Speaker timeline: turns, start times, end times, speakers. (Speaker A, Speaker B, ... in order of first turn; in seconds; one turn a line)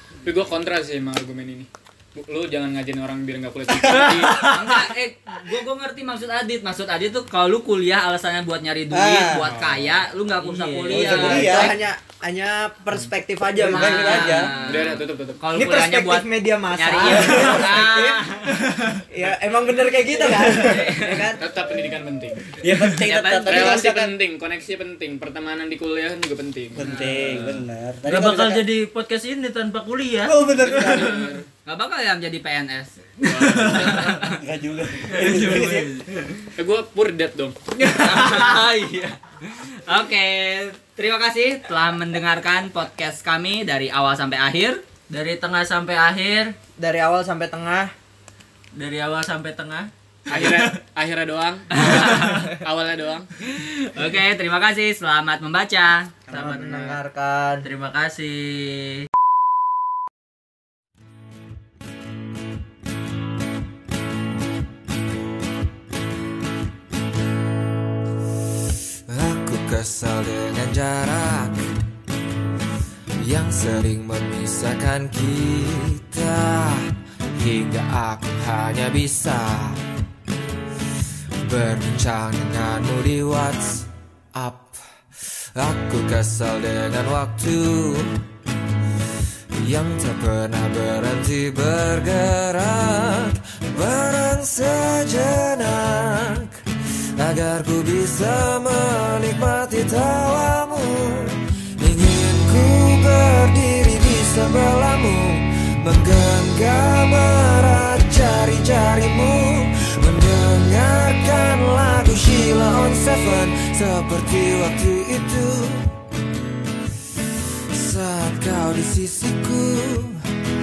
Speaker A: 0.2-4.5
Speaker B: 3.8-4.8
Speaker C: 4.4-11.8
Speaker D: 8.9-9.4
Speaker A: 9.5-10.0
Speaker B: 10.4-11.5
Speaker D: 10.9-11.8
Speaker E: 11.1-14.5
Speaker D: 13.6-14.5
Speaker C: 13.6-18.6
Speaker A: 14.6-15.4
Speaker E: 15.5-18.4
Speaker B: 18.5-19.0
Speaker E: 19.1-21.4
Speaker C: 20.3-21.4
Speaker A: 21.4-22.6
Speaker D: 22.6-24.1
Speaker B: 22.7-23.0
Speaker C: 23.0-23.8
Speaker A: 23.5-26.8
Speaker D: 26.8-28.7
Speaker C: 26.8-27.2
Speaker B: 27.1-31.3
Speaker D: 30.3-31.2
Speaker A: 30.6-31.4
Speaker C: 31.7-34.4
Speaker A: 33.2-34.1
Speaker B: 33.4-34.2
Speaker D: 34.2-35.9
Speaker B: 35.1-36.5
Speaker A: 36.6-37.6
Speaker C: 37.9-44.8
Speaker B: 38.0-38.6
Speaker B: 45.1-46.6
Speaker E: 46.8-47.9
Speaker B: 48.8-50.8
Speaker A: 50.3-53.3
Speaker C: 51.7-52.5
Speaker B: 52.0-52.4
Speaker C: 53.4-56.1
Speaker B: 56.3-56.9
Speaker E: 56.3-57.7
Speaker A: 56.6-57.0
Speaker B: 57.6-59.1
Speaker F: 69.1-71.8
Speaker F: 73.2-79.8
Speaker F: 81.5-84.8
Speaker F: 85.6-88.2
Speaker F: 89.6-96.6
Speaker F: 97.2-115.9
Speaker F: 117.7-120.2